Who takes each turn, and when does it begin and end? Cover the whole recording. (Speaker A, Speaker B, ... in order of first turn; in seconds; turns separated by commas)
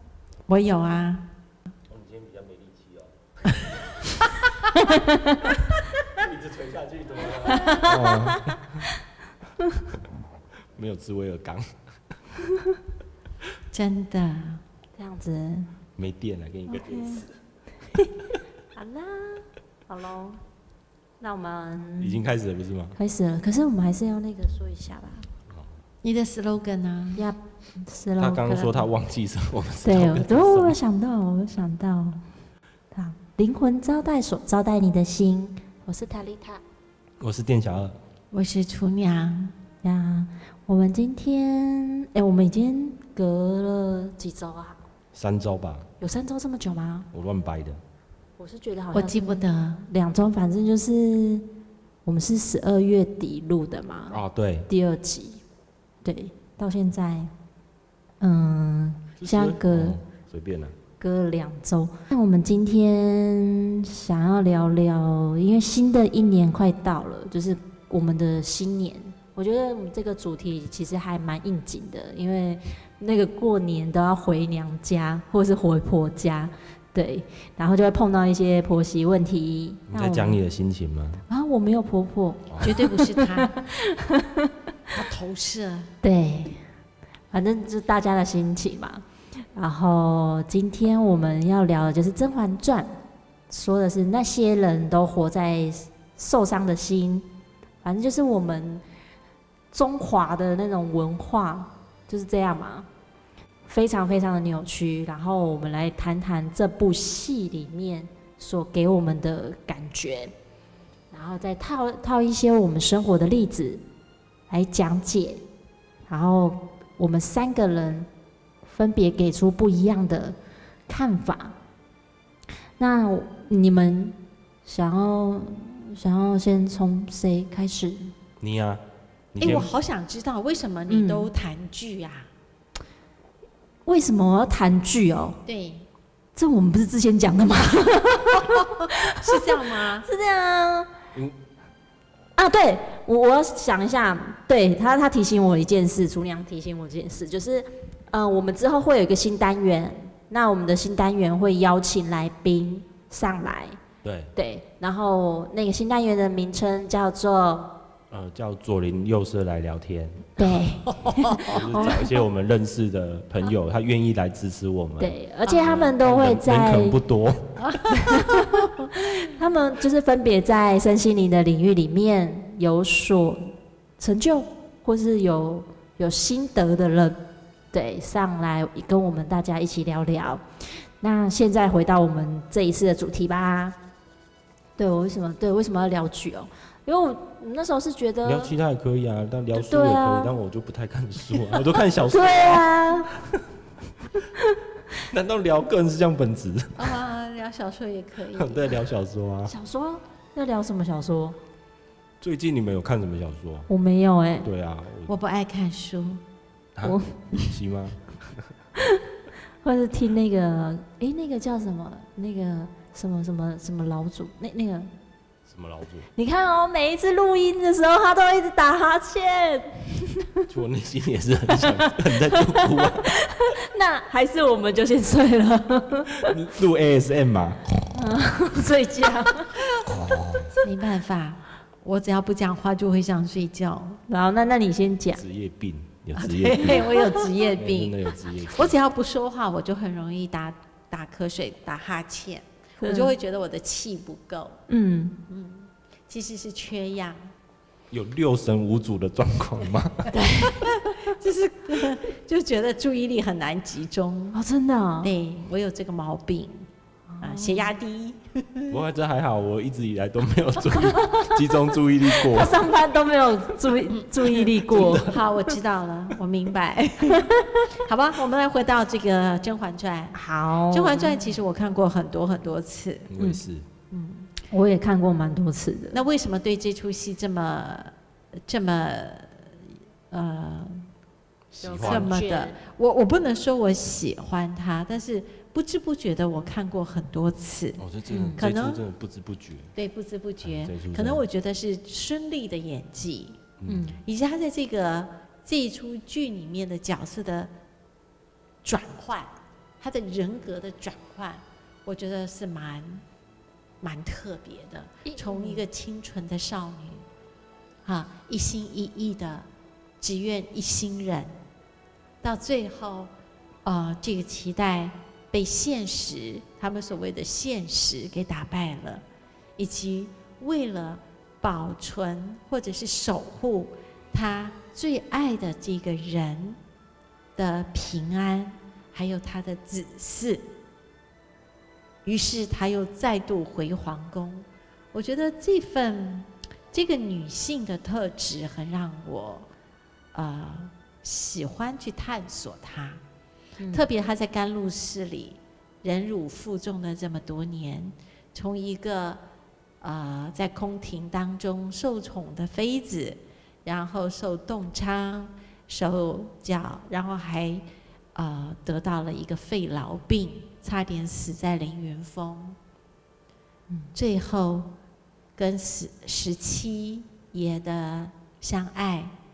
Speaker A: 0.5-1.3, Speaker B: 1.9-3.6, Speaker C: 4.8-5.6, Speaker B: 6.1-8.8, Speaker C: 7.4-8.6, Speaker B: 10.8-11.8, Speaker A: 13.7-14.6, Speaker C: 14.9-15.7, Speaker B: 16.0-17.3, Speaker C: 16.7-17.3, Speaker C: 18.7-20.4, Speaker C: 21.2-22.2, Speaker B: 22.0-23.0, Speaker C: 23.0-25.3, Speaker A: 26.0-27.2, Speaker C: 27.2-28.9, Speaker B: 28.2-30.8, Speaker C: 29.8-32.2, Speaker C: 32.9-36.6, Speaker B: 37.2-38.0, Speaker A: 38.3-39.5, Speaker C: 39.8-44.8, Speaker B: 45.1-45.9, Speaker C: 46.0-47.1, Speaker B: 47.1-47.8, Speaker C: 48.4-51.5, Speaker A: 48.9-49.8, Speaker C: 52.0-55.4, Speaker B: 54.1-54.7, Speaker C: 56.0-57.3, Speaker C: 58.2-60.0, Speaker B: 59.2-60.7, Speaker C: 61.0-80.4, Speaker B: 79.9-81.2, Speaker C: 81.3-84.5, Speaker A: 82.6-83.5, Speaker A: 84.9-85.9, Speaker C: 86.0-86.6, Speaker C: 87.3-89.0, Speaker C: 89.5-93.0, Speaker C: 93.5-97.2, Speaker C: 97.8-98.8, Speaker C: 99.7-102.9, Speaker C: 103.7-110.3, Speaker C: 111.1-113.8, Speaker C: 114.5-115.4, Speaker C: 116.1-118.1, Speaker C: 118.7-120.4, Speaker C: 120.9-121.5, Speaker C: 122.8-128.1, Speaker B: 128.4-128.8, Speaker B: 129.3-129.7, Speaker A: 129.4-132.3, Speaker C: 129.4-129.7, Speaker C: 130.9-131.3, Speaker C: 133.8-135.4, Speaker A: 135.4-135.9, Speaker C: 136.3-140.9, Speaker A: 138.6-140.1, Speaker C: 142.3-153.8, Speaker B: 154.0-154.3, Speaker C: 154.3-157.8, Speaker B: 158.1-160.4, Speaker C: 160.4-162.1, Speaker A: 160.4-162.0, Speaker B: 161.4-167.8, Speaker C: 165.0-167.0, Speaker A: 165.4-165.9, Speaker A: 167.6-169.3, Speaker C: 168.1-180.4, Speaker C: 181.0-183.8, Speaker C: 184.8-188.6, Speaker B: 188.2-193.4, Speaker C: 189.5-190.3, Speaker C: 192.0-193.1, Speaker B: 195.1-196.9, Speaker A: 196.8-198.8, Speaker B: 198.3-199.5, Speaker C: 199.5-201.4, Speaker B: 202.2-203.7, Speaker C: 203.7-204.5, Speaker B: 204.4-205.1, Speaker A: 205.1-206.2, Speaker B: 206.8-208.5, Speaker C: 206.8-207.1, Speaker C: 209.6-214.9, Speaker B: 215.5-216.1, Speaker C: 216.2-220.4, Speaker B: 220.5-223.2, Speaker C: 221.6-226.4, Speaker B: 226.2-227.8, Speaker C: 227.9-229.6, Speaker B: 229.8-230.5, Speaker A: 230.6-234.0, Speaker C: 234.1-235.2, Speaker B: 235.2-236.9, Speaker A: 236.2-244.6, Speaker B: 237.5-238.8, Speaker C: 242.8-243.1, Speaker C: 244.7-245.2, Speaker A: 245.3-247.3, Speaker B: 247.9-250.1, Speaker A: 250.1-254.4, Speaker C: 254.3-255.1, Speaker A: 255.0-256.7, Speaker C: 257.1-257.7, Speaker A: 257.2-258.8, Speaker B: 258.7-262.6, Speaker C: 260.9-261.3, Speaker C: 262.1-265.2, Speaker B: 264.7-265.1, Speaker A: 264.8-270.2, Speaker C: 267.2-267.6, Speaker C: 270.1-271.3, Speaker A: 270.7-273.1, Speaker B: 273.1-273.6, Speaker A: 273.9-274.3, Speaker C: 274.5-276.0, Speaker A: 275.9-277.9, Speaker A: 278.5-279.6, Speaker A: 280.1-280.9, Speaker B: 281.5-282.2, Speaker C: 281.6-282.6, Speaker A: 281.8-287.8, Speaker B: 287.8-289.7, Speaker C: 288.1-288.4, Speaker A: 288.4-288.8, Speaker A: 289.7-293.4, Speaker B: 290.4-291.2, Speaker B: 293.6-293.9, Speaker C: 293.7-294.0, Speaker A: 294.1-297.5, Speaker A: 298.6-303.0, Speaker A: 303.8-307.0, Speaker C: 305.0-305.6, Speaker A: 307.8-309.5, Speaker A: 310.0-311.4, Speaker A: 312.2-313.1, Speaker A: 313.6-319.0, Speaker A: 319.6-326.6, Speaker A: 327.4-330.5, Speaker A: 332.0-339.5, Speaker A: 340.1-343.0, Speaker C: 343.6-343.9, Speaker A: 343.7-349.2, Speaker A: 349.8-362.6, Speaker A: 363.9-364.7, Speaker A: 365.4-369.1